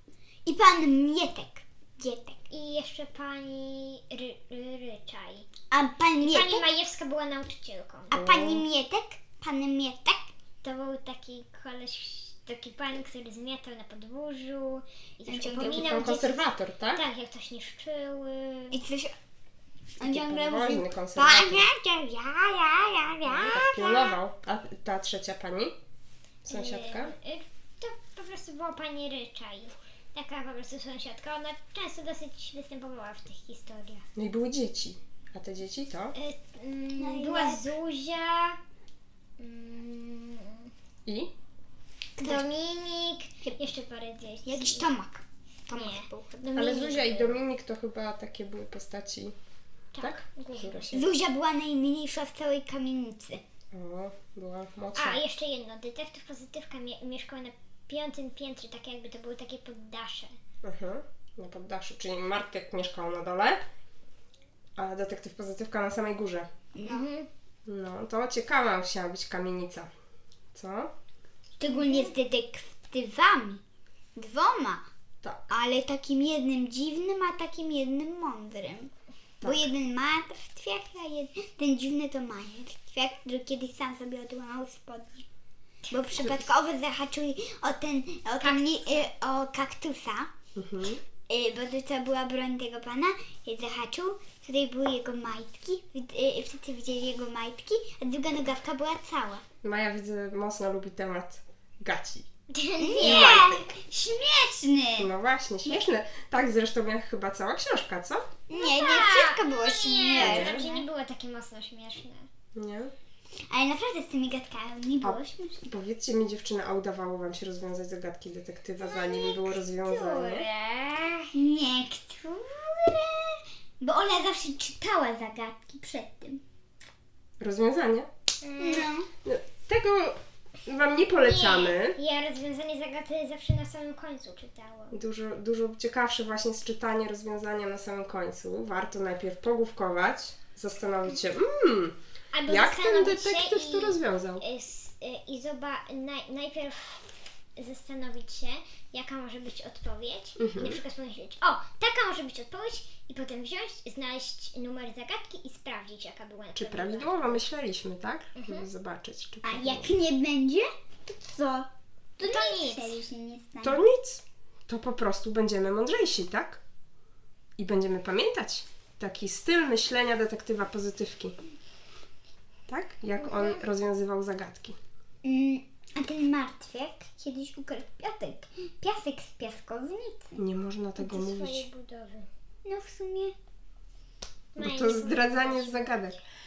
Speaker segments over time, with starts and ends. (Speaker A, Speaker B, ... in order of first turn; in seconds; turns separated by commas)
Speaker A: 0.5-2.4, Speaker B: 2.5-5.5, Speaker A: 5.7-6.7, Speaker B: 6.2-8.1, Speaker A: 8.1-10.3, Speaker C: 8.1-8.7, Speaker B: 10.6-18.8, Speaker A: 15.3-16.2, Speaker C: 15.5-17.0, Speaker A: 18.7-19.1, Speaker C: 20.0-21.7, Speaker A: 20.0-24.2, Speaker C: 23.2-25.8, Speaker C: 26.4-27.1, Speaker B: 26.5-34.0, Speaker C: 34.2-36.1, Speaker B: 36.1-38.6, Speaker A: 37.0-37.8, Speaker B: 39.4-40.7, Speaker C: 41.1-41.3, Speaker A: 42.2-42.5, Speaker B: 42.2-44.9, Speaker A: 44.5-46.5, Speaker B: 45.7-47.4, Speaker C: 46.5-49.4, Speaker B: 49.9-50.9, Speaker C: 50.0-51.1, Speaker A: 50.9-53.4, Speaker C: 53.7-55.2, Speaker B: 55.0-60.3, Speaker C: 60.6-63.6, Speaker C: 64.8-66.5, Speaker A: 66.8-67.1, Speaker B: 66.8-67.3, Speaker C: 67.7-69.9, Speaker C: 70.5-70.9, Speaker A: 71.6-73.6, Speaker B: 71.6-72.2, Speaker A: 74.2-74.9, Speaker A: 75.5-78.9, Speaker C: 79.4-79.7, Speaker A: 79.4-85.3, Speaker A: 85.9-90.3, Speaker B: 88.4-89.1, Speaker C: 90.5-91.0, Speaker A: 91.3-99.5, Speaker C: 99.6-102.3, Speaker B: 102.5-103.6, Speaker A: 102.8-105.1, Speaker C: 103.0-103.6, Speaker C: 105.0-108.3, Speaker A: 108.5-110.9, Speaker B: 108.5-112.3, Speaker C: 110.2-110.7, Speaker C: 112.5-112.9, Speaker A: 113.5-115.7, Speaker C: 115.0-120.5, Speaker B: 119.3-121.3, Speaker A: 121.3-126.4, Speaker C: 127.4-128.1, Speaker B: 128.4-128.9, Speaker A: 128.6-129.1, Speaker C: 129.2-132.0, Speaker B: 131.2-135.0, Speaker C: 134.9-142.0, Speaker B: 142.3-157.4, Speaker C: 142.5-144.4, Speaker C: 150.4-150.8, Speaker C: 156.6-159.9, Speaker B: 158.4-158.7, Speaker A: 159.4-163.8, Speaker B: 162.2-163.0, Speaker C: 163.6-166.6, Speaker C: 167.6-171.4, Speaker C: 172.7-174.8, Speaker B: 173.2-173.6, Speaker A: 175.2-180.4, Speaker C: 180.4-181.7, Speaker B: 181.0-182.3, Speaker A: 182.7-183.3, Speaker B: 184.6-186.1, Speaker C: 184.6-186.2